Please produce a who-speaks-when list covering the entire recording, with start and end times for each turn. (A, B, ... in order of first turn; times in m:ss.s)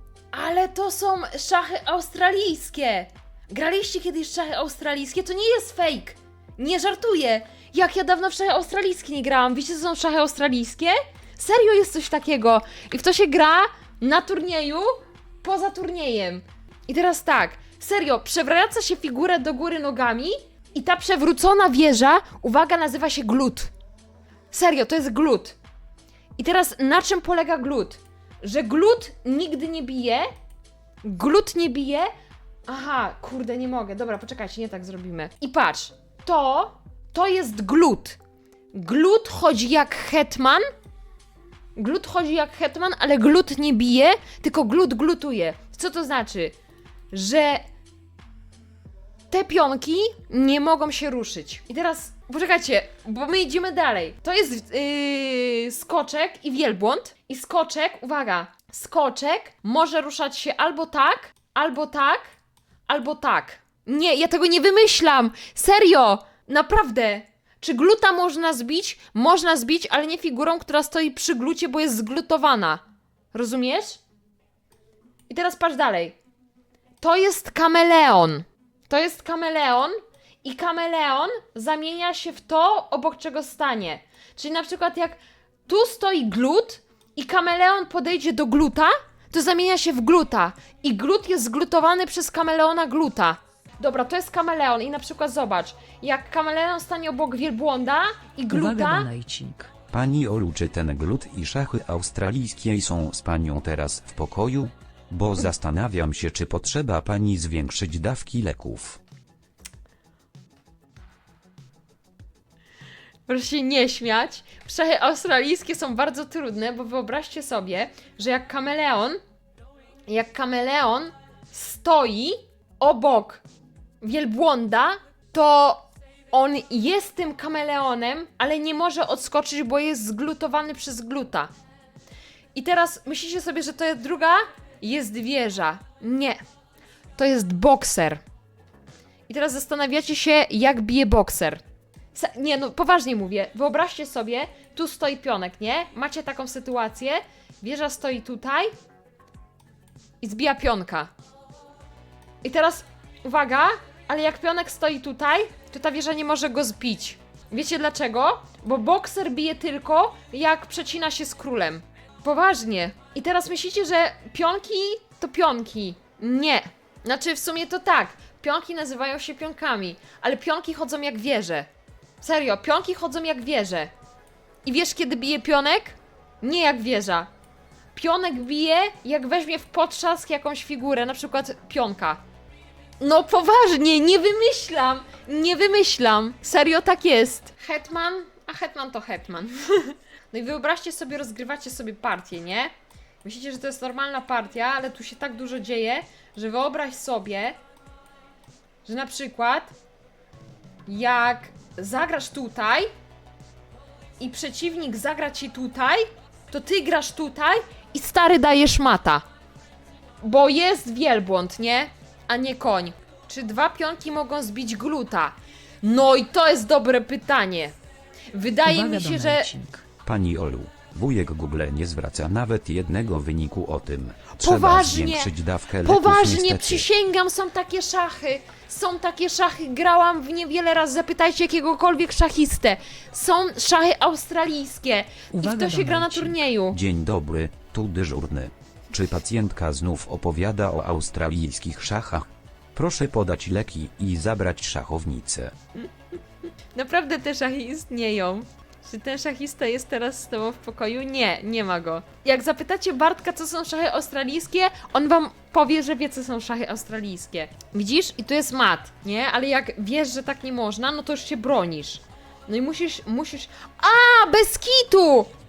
0:00.3-0:23.7 A
0:24.5-0:25.6 A
0:26.4-0:30.3 A
0:31.0-0:32.1 A
0:32.7-0:38.2 A
0:38.7-0:40.6 A
0:41.8-0:46.5 A
0:47.1-0:47.6 A
0:49.3-1:02.3 A
1:02.9-1:12.8 A
1:13.3-1:14.0 A
1:15.3-1:16.2 A
1:17.0-1:39.1 A
1:38.5-1:39.7 B
1:39.9-1:49.0 C
1:53.3-1:59.2 A
2:00.1-2:03.4 A
2:04.0-2:11.5 A
2:12.5-2:16.4 A
2:17.2-2:18.2 A
2:19.3-2:21.6 A
2:22.1-2:28.7 A
2:30.2-2:31.1 A
2:32.4-2:51.7 A
2:52.2-2:53.9 A
2:54.6-2:57.3 A
2:57.9-3:02.2 A
3:03.0-3:12.7 A
3:13.2-3:17.6 A
3:18.8-3:19.7 A
3:20.9-3:22.9 A
3:24.2-3:29.2 A
3:30.2-3:37.7 A
3:38.3-3:39.5 A
3:38.6-3:39.8 B
3:40.0-3:46.9 C
3:44.4-3:56.8 A
3:55.3-3:56.4 B
3:56.7-4:05.5 C
4:06.7-4:25.3 A